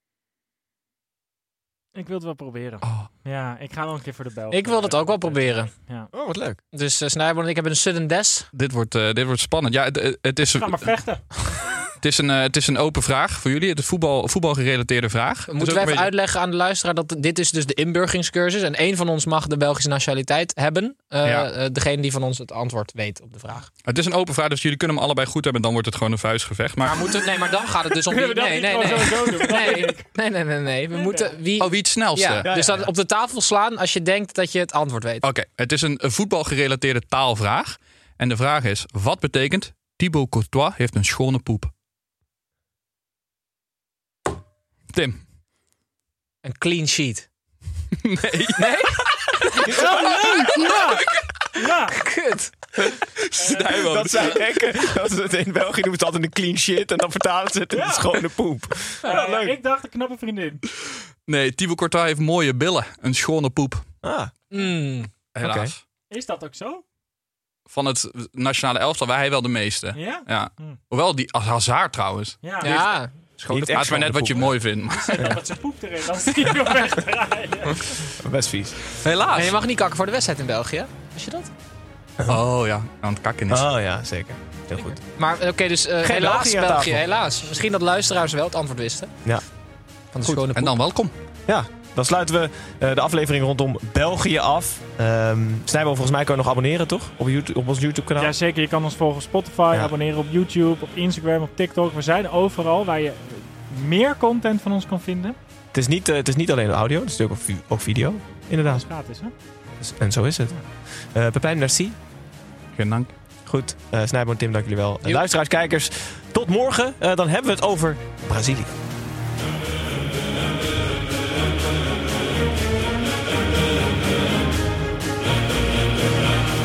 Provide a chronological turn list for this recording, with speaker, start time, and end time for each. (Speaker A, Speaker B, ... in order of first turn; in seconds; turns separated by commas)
Speaker A: 1.9-6.1, Speaker B: 4.5-5.7, Speaker C: 6.1-6.6, Speaker B: 6.7-8.5, Speaker D: 8.5-10.9, Speaker A: 10.5-11.4, Speaker D: 12.0-16.1, Speaker B: 15.5-23.7, Speaker D: 21.2-21.5, Speaker D: 23.9-27.0, Speaker B: 26.8-35.2, Speaker A: 28.1-30.1, Speaker A: 30.9-31.4, Speaker D: 31.6-32.5, Speaker C: 32.4-32.9, Speaker D: 35.2-41.7, Speaker D: 44.9-45.2, Speaker B: 46.4-47.3, Speaker D: 48.0-48.8, Speaker B: 48.5-50.5, Speaker A: 49.8-52.0, Speaker B: 51.9-52.5, Speaker D: 52.9-54.6, Speaker C: 53.5-59.6, Speaker A: 57.7-58.2, Speaker A: 59.0-60.6, Speaker D: 61.2-63.8, Speaker C: 64.0-64.3, Speaker B: 64.5-65.1, Speaker D: 65.3-65.8, Speaker C: 65.4-65.7, Speaker A: 66.1-66.8, Speaker D: 67.7-72.7, Speaker A: 69.9-70.8, Speaker A: 72.4-72.9, Speaker B: 72.6-73.7, Speaker C: 73.4-74.5, Speaker D: 73.5-75.4, Speaker A: 75.0-78.1, Speaker C: 78.2-78.8, Speaker D: 79.0-79.6, Speaker B: 79.3-81.5, Speaker D: 82.3-83.7, Speaker C: 83.5-85.0, Speaker B: 84.8-89.1, Speaker C: 86.0-87.0, Speaker B: 90.1-90.7, Speaker D: 90.5-91.1, Speaker C: 91.5-98.3, Speaker A: 98.2-105.4, Speaker C: 105.7-108.8, Speaker A: 108.6-109.3, Speaker C: 109.8-110.5, Speaker C: 111.1-112.0, Speaker D: 112.7-113.1, Speaker C: 113.5-118.7